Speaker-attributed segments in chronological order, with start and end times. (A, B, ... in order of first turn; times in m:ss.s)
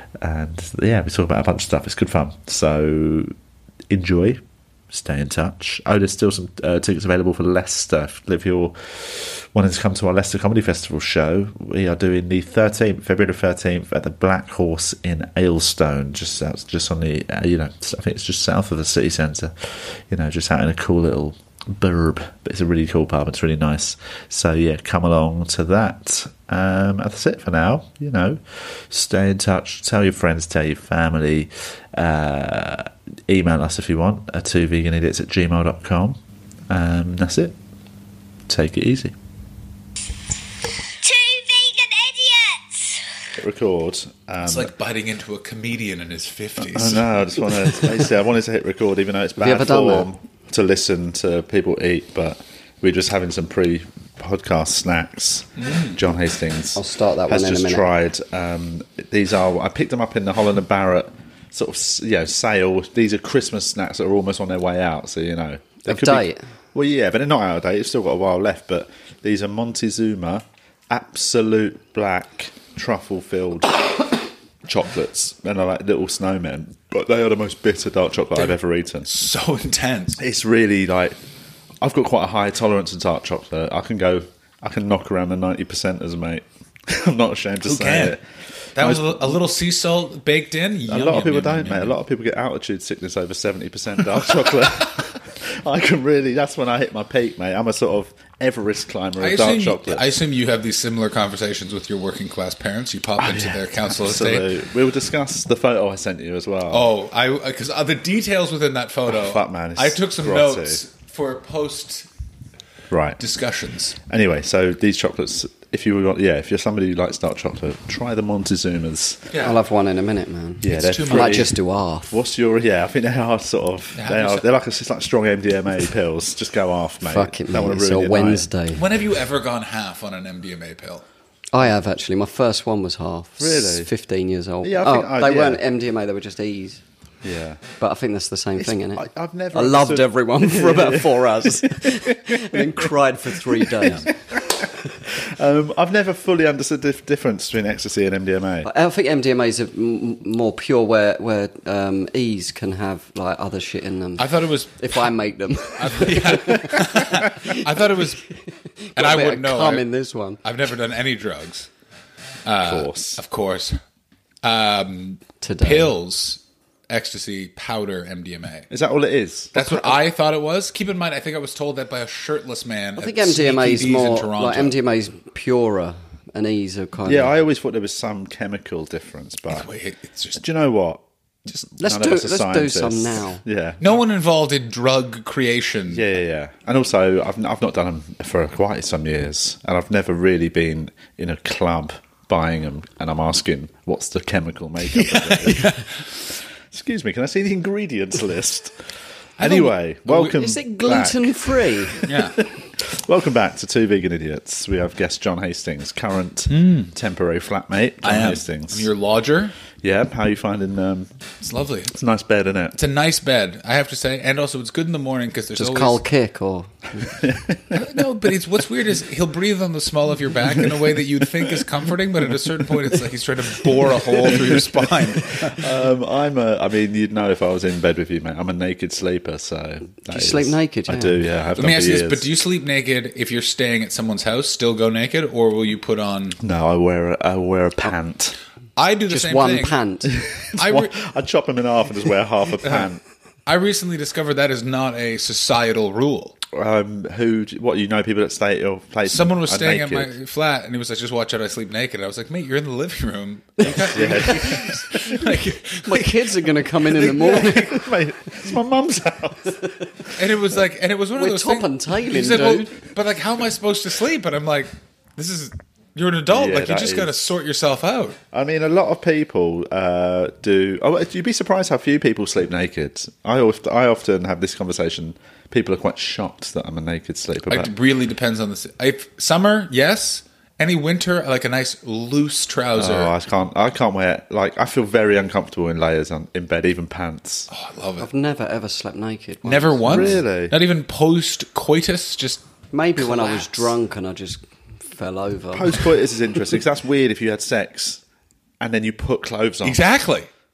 0:00.2-0:03.3 A
0:03.9-0:37.6 A
0:38.5-0:39.1 A
0:41.0-0:43.0 B
0:43.4-0:44.7 A
0:44.4-0:47.2 C
0:46.6-1:14.0 A
0:49.4-0:50.1 D
0:55.6-0:56.0 C
0:56.8-0:57.9 D
1:05.8-1:06.4 D
1:14.6-1:19.1 A
1:19.0-1:20.2 C
1:20.2-1:21.2 A
1:21.8-1:28.2 A
1:27.6-1:28.2 C
1:28.8-1:29.4 A
1:28.8-1:32.0 C
1:30.9-1:40.1 A
1:39.2-1:44.5 C
1:43.2-1:46.9 A
1:46.7-1:52.1 C
1:49.1-1:50.8 A
1:52.9-1:53.2 A
1:53.2-1:54.0 C
1:54.0-1:59.3 A
1:59.3-1:59.6 C
1:59.4-2:02.1 D
2:00.6-2:01.5 A
2:00.6-2:01.5 C
2:02.1-2:08.4 A
2:04.0-2:04.4 C
2:07.1-2:08.8 D
2:08.7-2:11.0 C
2:11.5-2:16.8 D
2:13.4-2:13.9 A
2:14.6-2:15.6 A
2:17.2-2:17.6 A
2:17.8-2:24.1 D
2:18.6-2:22.9 A
2:23.4-2:28.7 A
2:28.6-2:37.8 D
2:34.2-2:34.8 C
2:35.8-2:38.2 C
2:38.8-2:40.4 D
2:39.0-2:39.8 C
2:40.4-2:41.7 C
2:42.4-2:43.8 C
2:42.6-2:43.2 A
2:44.4-2:48.7 C
2:45.4-2:45.9 D
2:48.7-2:50.0 A
2:49.5-2:54.8 C
2:53.0-2:57.3 D
2:57.0-2:59.7 A
2:59.5-3:00.4 C
3:00.4-3:03.8 A
3:01.8-3:03.4 D
3:03.8-3:06.1 C
3:05.9-3:28.9 A
3:14.8-3:16.0 C
3:19.4-3:20.3 C
3:20.1-3:22.1 D
3:22.0-3:22.4 C
3:26.5-3:26.9 C
3:28.0-3:29.5 C
3:29.8-3:31.1 A
3:31.4-3:31.9 C
3:31.9-3:32.8 A
3:32.7-3:36.0 C
3:35.6-3:37.2 D
3:37.1-3:37.8 A
3:37.7-3:45.7 C
3:44.2-3:52.3 A
3:50.0-3:51.2 D
3:51.6-3:56.4 C
3:56.4-3:58.4 A
3:58.8-3:59.8 C
3:59.1-4:00.1 D
4:00.0-4:03.0 A
4:00.5-4:01.0 C
4:02.6-4:02.9 C
4:03.4-4:06.4 C
4:06.5-4:10.1 A
4:09.0-4:17.6 C
4:13.6-4:15.2 D
4:13.6-4:15.0 A
4:15.8-4:17.8 D
4:16.9-4:20.1 A
4:20.1-4:28.2 C
4:21.2-4:22.7 D
4:26.3-4:27.1 A
4:28.3-4:37.7 A
4:37.5-4:43.1 C
4:42.8-4:47.5 A
4:47.5-4:48.1 C
4:48.0-4:50.2 D
4:49.4-4:52.4 C
4:49.8-4:50.6 A
4:52.7-4:55.8 D
4:53.0-4:53.7 C
4:55.5-4:58.0 A
4:58.6-4:59.8 A
4:59.6-5:00.3 C